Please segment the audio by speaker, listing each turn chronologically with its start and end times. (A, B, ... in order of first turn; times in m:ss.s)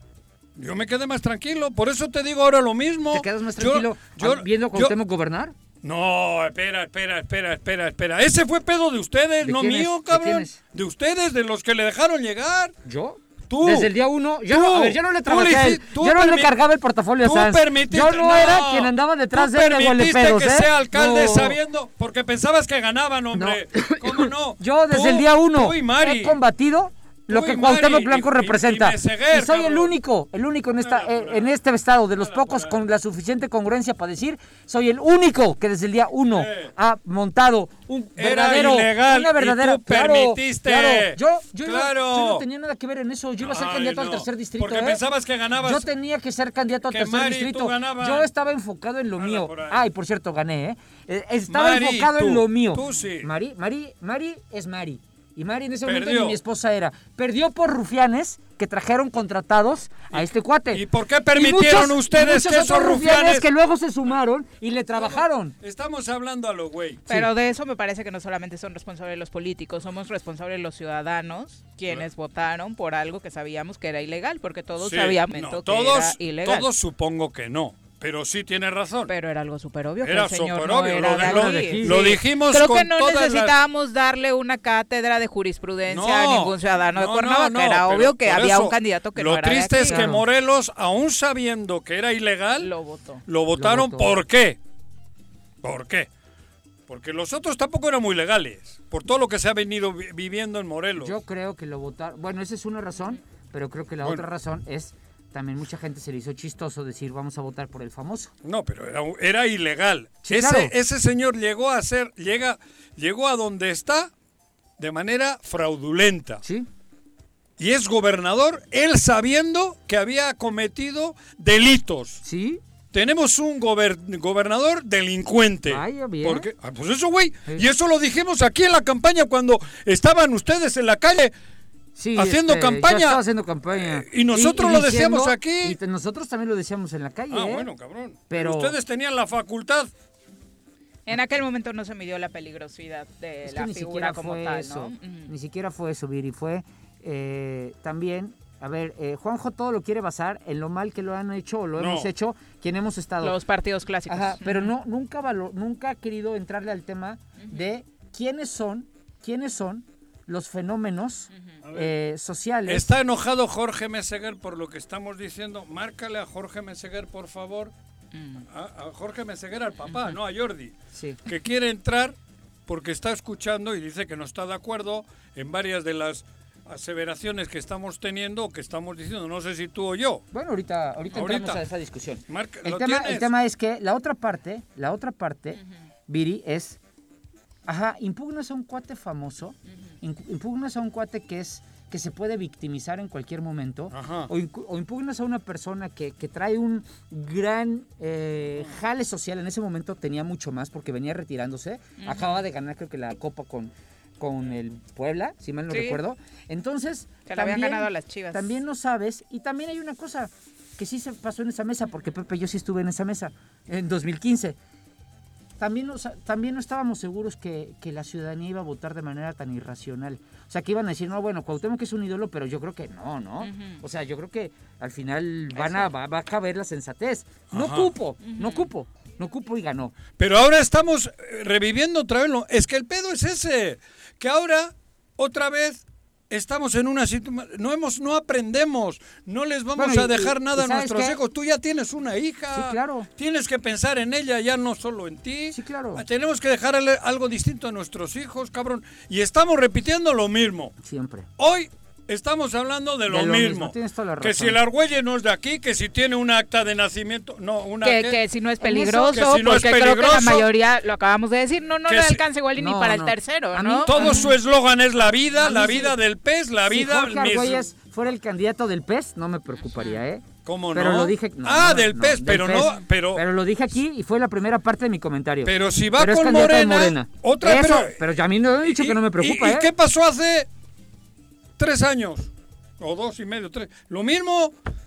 0:00.6-0:05.0 A
0:03.1-0:05.5 B
0:05.8-0:12.7 A
0:09.4-0:10.6 B
0:12.8-0:21.6 B
0:13.5-0:13.9 A
0:14.5-0:16.5 A
0:17.2-0:26.4 A
0:23.3-0:45.0 B
0:27.3-0:29.9 A
0:30.8-0:31.5 A
0:32.2-0:32.8 A
0:36.3-0:36.7 A
0:38.2-0:42.4 A
0:43.4-0:45.9 A
0:45.6-1:05.5 B
0:46.9-0:48.3 A
0:49.2-0:49.8 A
0:51.5-0:53.3 A
0:55.8-0:56.4 A
1:00.1-1:03.5 A
1:05.0-1:07.1 A
1:07.1-1:16.6 C
1:14.8-1:19.1 A
1:19.1-1:30.0 C
1:20.0-1:23.5 A
1:21.2-1:22.2 B
1:25.9-1:32.7 A
1:29.8-1:30.2 B
1:32.6-1:33.2 C
1:33.3-1:34.6 A
1:33.5-1:34.2 B
1:35.6-1:36.1 A
1:36.9-1:41.2 A
1:41.0-1:48.3 B
1:48.4-1:54.1 A
1:50.2-1:50.7 B
1:54.8-1:56.4 A
1:56.4-1:56.7 B
1:57.6-2:02.2 A
2:02.2-2:02.6 B
2:02.9-2:11.3 A
2:05.6-2:06.5 B
2:12.0-2:17.7 B
2:12.1-2:13.2 A
2:13.7-2:15.8 A
2:17.3-2:19.9 A
2:18.3-2:18.7 B
2:21.0-2:25.3 C
2:23.4-2:33.4 B
2:31.8-2:32.1 A
2:33.2-2:34.7 C
2:34.1-2:42.9 B
2:41.6-2:41.9 A
2:42.7-2:47.7 A
2:48.1-2:48.4 C
2:48.5-2:50.7 A
2:50.9-2:51.2 B
2:51.2-2:52.1 A
2:52.7-3:00.2 A
3:00.3-3:06.8 B
3:01.1-3:01.6 A
3:02.3-3:03.3 A
3:07.6-3:34.6 B
3:13.9-3:14.3 A
3:22.0-3:22.4 C
3:25.7-3:26.0 C
3:27.2-3:28.4 C
3:35.6-3:49.9 B
3:43.4-3:43.8 C
3:47.5-3:47.9 A
3:48.2-3:48.7 C
3:50.2-4:10.7 A
3:59.8-4:01.2 B
4:02.5-4:03.1 B
4:05.5-4:06.0 B
4:10.8-4:11.3 B
4:11.4-4:18.2 A
4:13.1-4:14.6 B
4:17.8-4:24.3 C
4:18.6-4:19.1 B
4:18.8-4:20.5 A
4:21.9-4:22.2 A
4:22.6-4:24.3 B
4:23.8-4:27.7 A
4:25.4-4:26.0 B
4:26.7-4:39.7 B
4:29.7-4:30.0 C
4:30.4-4:33.2 A
4:35.4-4:38.0 A
4:38.6-4:40.5 A
4:41.6-4:44.5 A